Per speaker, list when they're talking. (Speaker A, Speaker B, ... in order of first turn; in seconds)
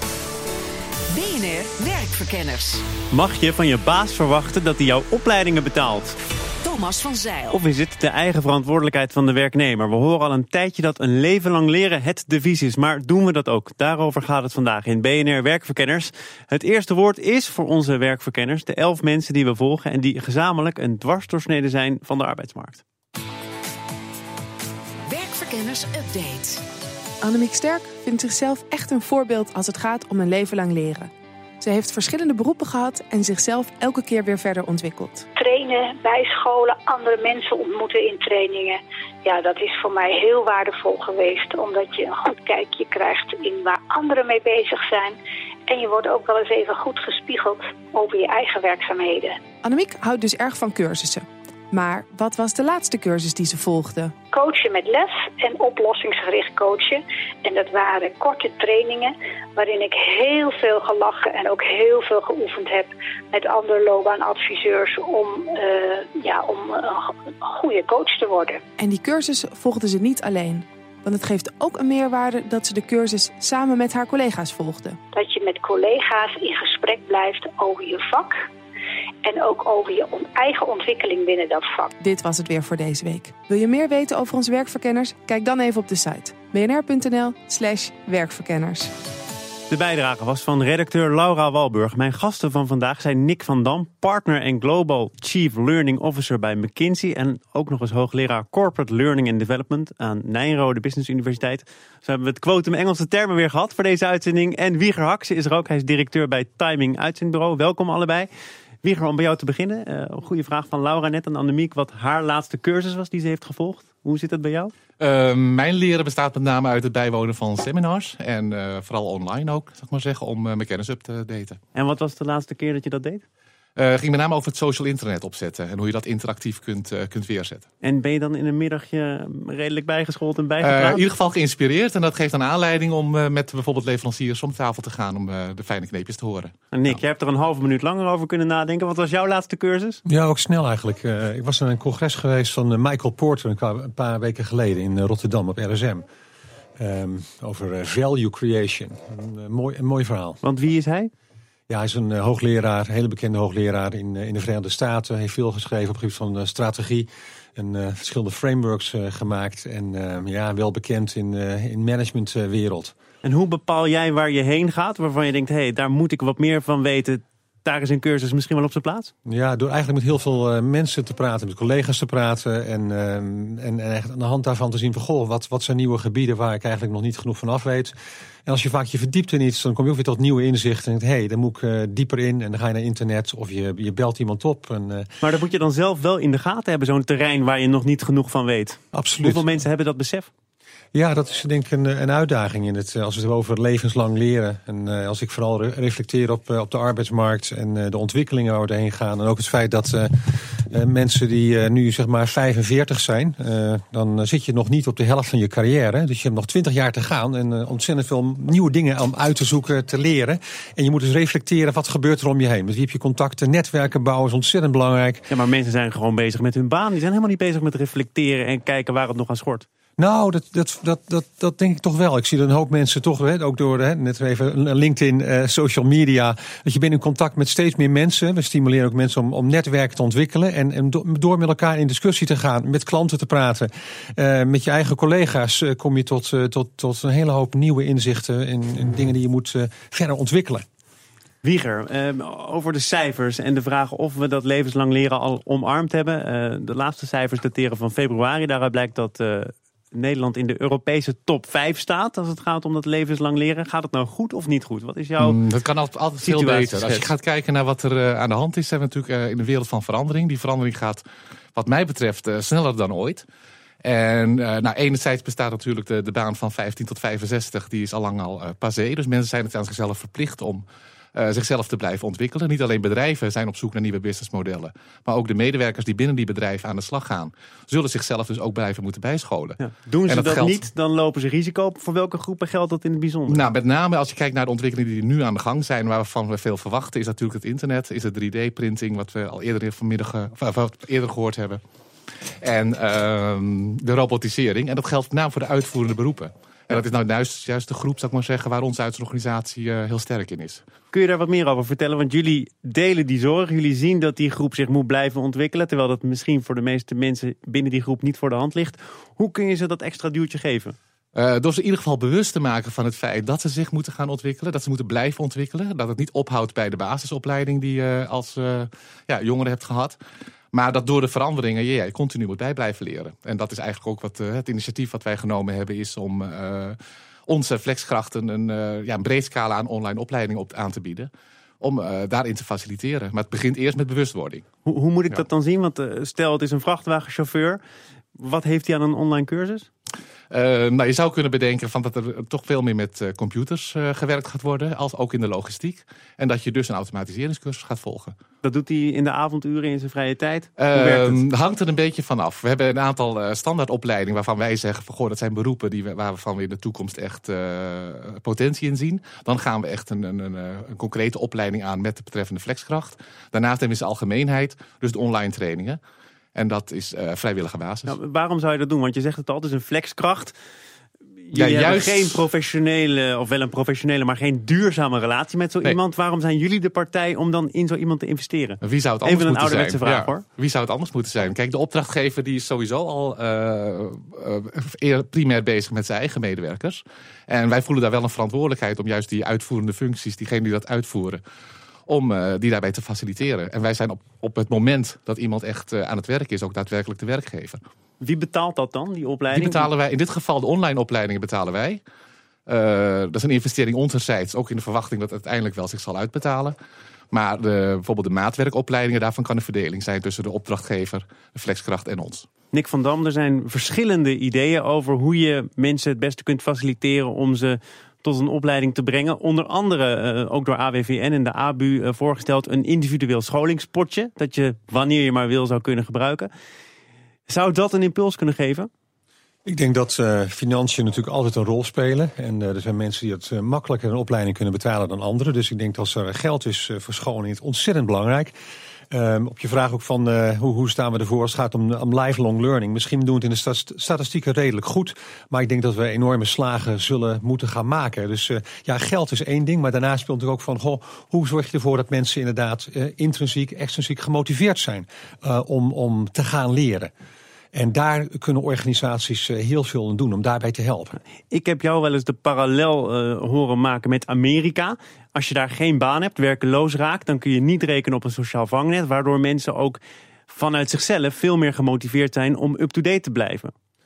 Speaker A: 1.1-2.8, 6.6-7.5, 25.1-26.6
Speaker B: 3.1-6.2, 7.5-22.8, 89.7-108.3, 108.8-114.7, 121.7-123.2, 127.8-131.0, 136.7-140.0, 150.4-151.1, 163.2-169.1, 185.2-190.3, 215.3-219.7, 241.4-255.4, 256.2-257.1, 279.6-283.4, 300.9-310.8, 334.6-337.6, 338.1-339.7, 348.4-351.2, 367.9-370.3, 371.3-380.2, 398.0-399.7, 412.5-426.3, 427.3-428.7, 461.3-473.5
Speaker C: 27.2-35.3, 49.6-54.1, 68.8-75.0, 82.0-88.9
Speaker D: 35.4-45.1, 45.7-49.4, 54.3-68.6, 75.1-78.3, 79.2-81.9
Speaker E: 115.0-121.6, 123.8-127.7, 130.6-137.0, 255.2-261.0, 261.5-263.2, 263.8-280.6, 283.3-291.6, 292.4-300.6, 311.1-320.0, 320.5-326.8, 327.3-331.1, 331.6-334.4, 340.3-348.1, 350.6-365.8, 366.3-367.9, 371.3-372.2, 378.6-391.2, 391.9-397.6, 399.3-401.8, 402.5-406.6, 407.1-412.3
Speaker F: 140.1-146.0, 146.8-150.4, 151.7-162.9, 169.2-177.9, 178.4-185.1, 188.9-189.4, 190.9-215.3, 220.0-240.6, 429.4-438.3, 438.9-456.9, 457.5-461.0